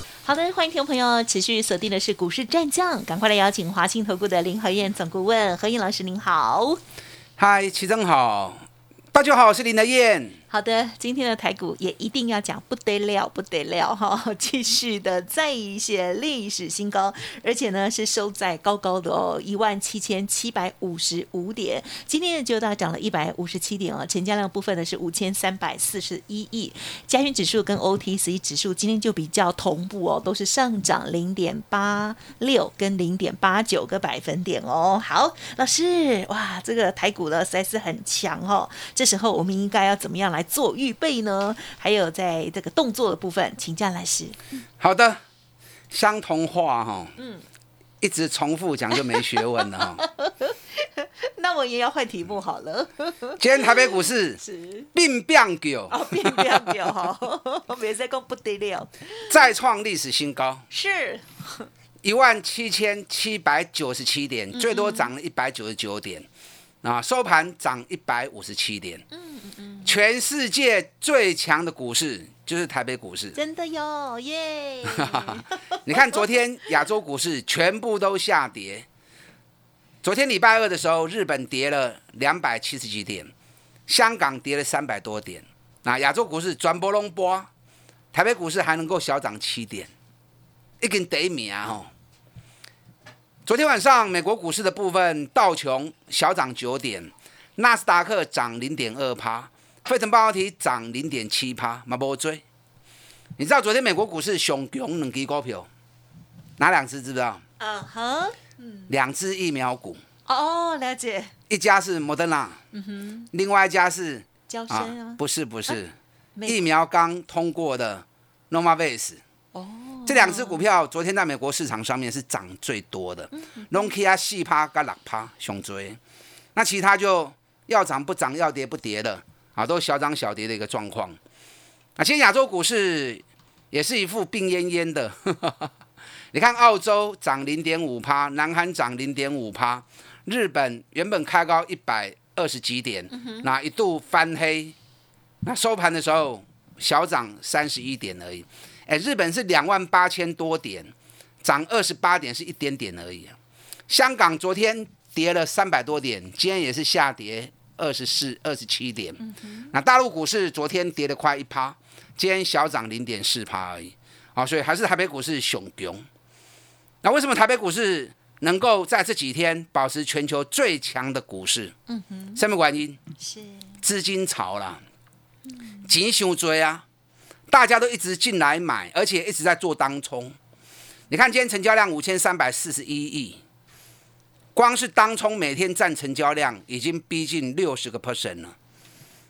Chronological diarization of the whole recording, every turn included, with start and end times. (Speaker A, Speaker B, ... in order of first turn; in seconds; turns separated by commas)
Speaker A: 0.2-6.8, Speaker B: 7.4-10.4, Speaker A: 10.5-44.4, Speaker B: 44.8-45.2, Speaker B: 45.9-47.1, Speaker B: 48.0-50.0, Speaker A: 49.8-54.9, Speaker B: 53.4-54.4, Speaker B: 54.9-56.7, Speaker A: 55.9-59.3, Speaker B: 59.3-60.6, Speaker A: 60.7-61.6, Speaker B: 62.0-66.3, Speaker A: 64.5-65.1, Speaker B: 66.8-69.0, Speaker A: 69.1-69.9, Speaker B: 69.8-73.3, Speaker A: 73.3-76.2, Speaker B: 74.8-78.8, Speaker B: 80.0-83.3, Speaker B: 83.9-87.5, Speaker B: 88.1-89.9, Speaker B: 90.8-91.9, Speaker B: 93.5-102.4, Speaker B: 103.4-105.7, Speaker B: 106.6-107.4, Speaker A: 107.6-108.9, Speaker B: 108.9-110.0, Speaker A: 110.3-111.3, Speaker B: 111.5-112.6, Speaker A: 112.7-113.3, Speaker B: 113.3-115.9, Speaker A: 114.5-115.8, Speaker B: 116.5-119.2, Speaker A: 119.5-120.6, Speaker B: 120.0-126.0, Speaker A: 123.4-123.9, Speaker B: 126.5-131.2, Speaker B: 132.0-135.7, Speaker B: 136.3-144.7, Speaker A: 143.2-143.4, Speaker B: 145.4-153.3, Speaker B: 153.9-159.2, Speaker A: 159.2-159.7, Speaker B: 159.7-166.0, Speaker B: 167.0-171.7, Speaker A: 171.9-172.4, Speaker B: 172.3-173.0, Speaker A: 173.2-173.7, Speaker B: 173.8-174.8, Speaker B: 175.9-176.8, Speaker B: 177.5-180.3, Speaker B: 181.1-183.4, Speaker B: 184.5-188.5